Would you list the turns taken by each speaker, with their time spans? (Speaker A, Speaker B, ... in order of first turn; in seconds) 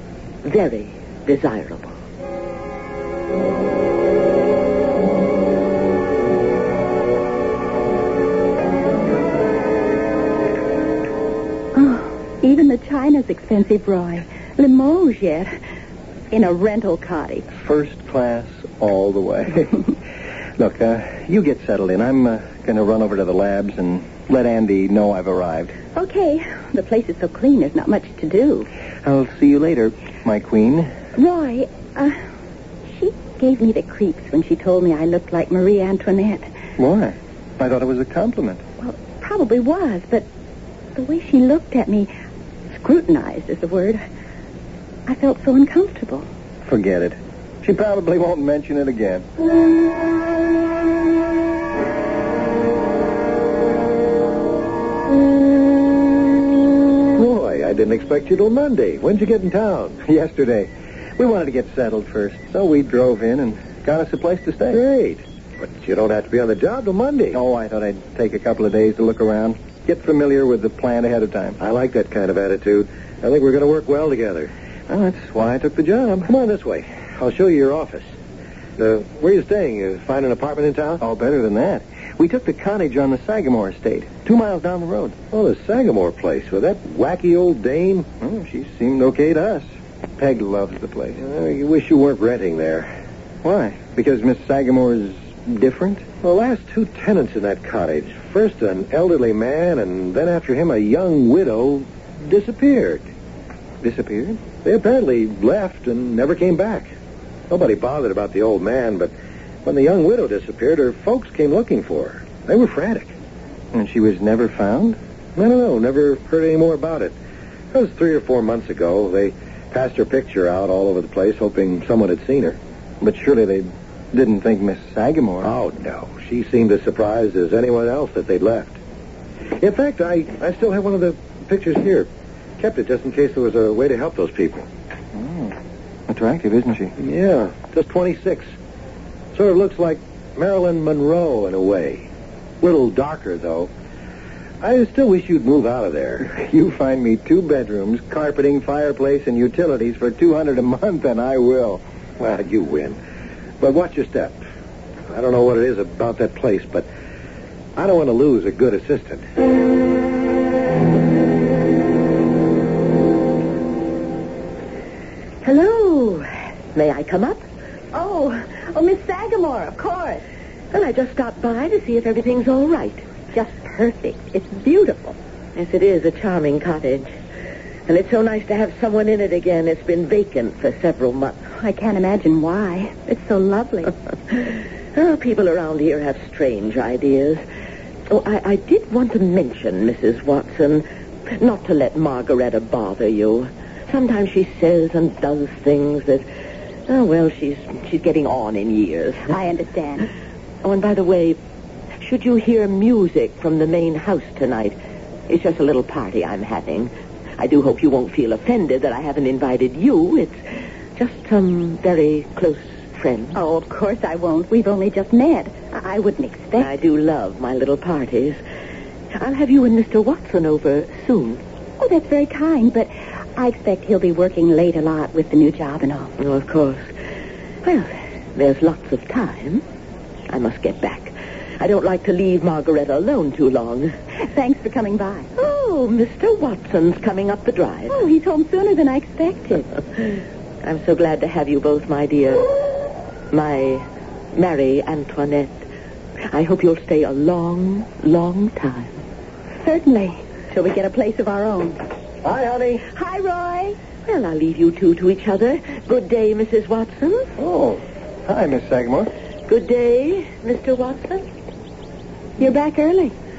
Speaker A: 0.4-1.9, 166.7-167.4, 170.7-173.0, 175.5-177.1, 177.9-181.4, 184.9-187.4, 188.1-196.2, 196.9-199.3, 200.6-201.4, 202.0-204.8, 205.3-210.4, 210.9-213.4, 216.6-218.4, 219.1-221.4, 226.2-226.9, 227.6-229.6, 230.3-233.9, 235.3-237.9, 240.6-242.5, 243.3-245.6, 246.3-249.0, 254.1-257.3, 259.5-261.3
Speaker B: 11.7-15.5, 16.3-17.5, 25.9-28.7, 31.1-32.2, 32.9-36.5, 38.8-40.3, 40.9-42.1, 42.7-44.0, 45.1-46.3, 165.4-166.2, 167.9-170.2, 173.3-175.2, 181.6-183.9, 199.3-200.1, 213.3-216.7, 221.8-226.1, 234.2-235.3, 237.9-239.7, 249.6-251.8, 252.9-253.8, 262.4-263.1
Speaker C: 17.5-19.9, 20.6-25.7, 29.0-30.9, 36.8-38.6, 46.6-49.2, 60.0-64.8, 67.3-71.6, 74.9-76.3, 81.0-85.2, 88.2-91.2, 93.4-96.1, 103.8-104.4, 113.7-115.0, 123.0-125.5, 135.1-135.6, 136.1-136.9, 146.2-151.8, 252.2-252.7, 257.4-259.1
Speaker D: 57.1-60.0, 64.7-67.4, 71.6-74.5, 76.2-78.1, 78.8-81.0, 85.3-88.1, 91.1-92.9, 96.2-103.0, 104.6-106.9, 107.5-109.1, 109.6-113.1, 115.3-117.1, 117.7-122.6, 125.4-128.8, 129.6-134.7, 137.0-138.5, 139.3-142.1, 142.6-143.7, 144.6-146.3, 152.2-153.0, 153.6-154.4, 155.1-156.9, 157.8-159.2